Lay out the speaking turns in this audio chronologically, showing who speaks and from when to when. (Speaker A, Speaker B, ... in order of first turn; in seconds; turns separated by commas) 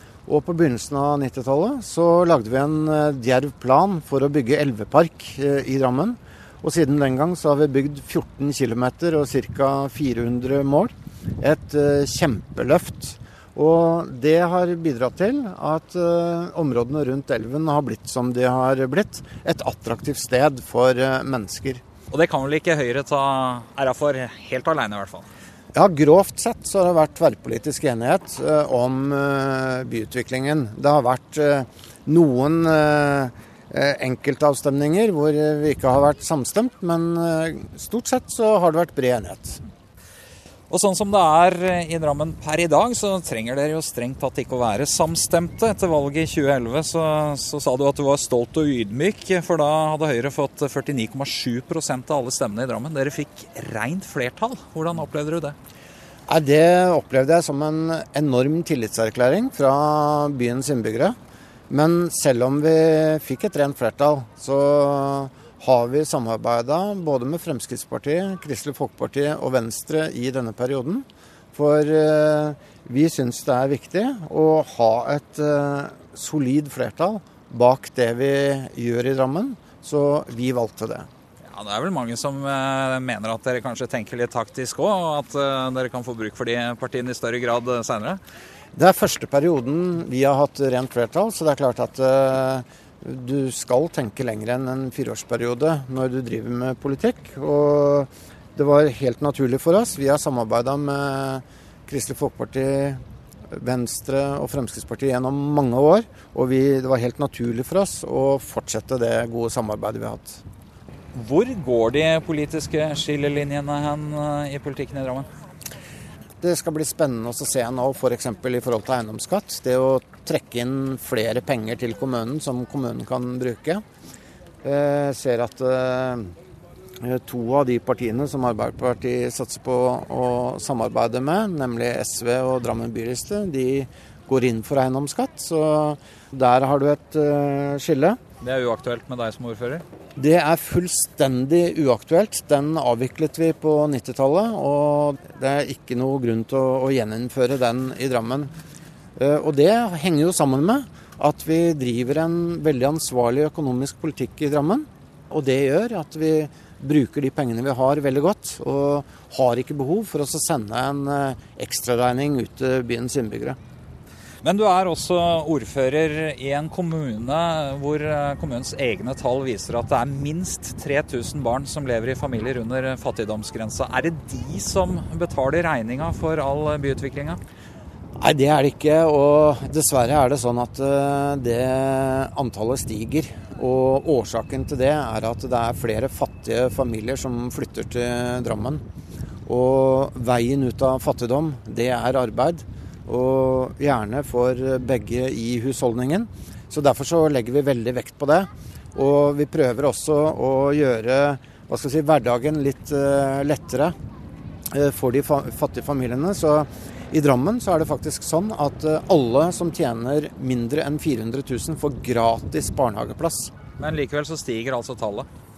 Speaker A: 0.2-21.8, Speaker B: 22.1-25.3, Speaker A: 25.7-39.6, Speaker B: 40.7-55.5, Speaker A: 56.3-61.1, Speaker A: 61.7-81.1, Speaker B: 81.4-88.2, Speaker A: 88.7-110.4, Speaker B: 111.1-115.3, Speaker A: 116.4-123.8, Speaker A: 124.6-126.3, Speaker A: 127.0-138.2, Speaker B: 138.4-139.8, Speaker A: 140.2-148.5, Speaker A: 149.2-163.6, Speaker B: 164.4-177.4, Speaker A: 178.2-188.8, Speaker A: 189.5-203.9, Speaker A: 204.7-213.5, Speaker B: 213.8-215.3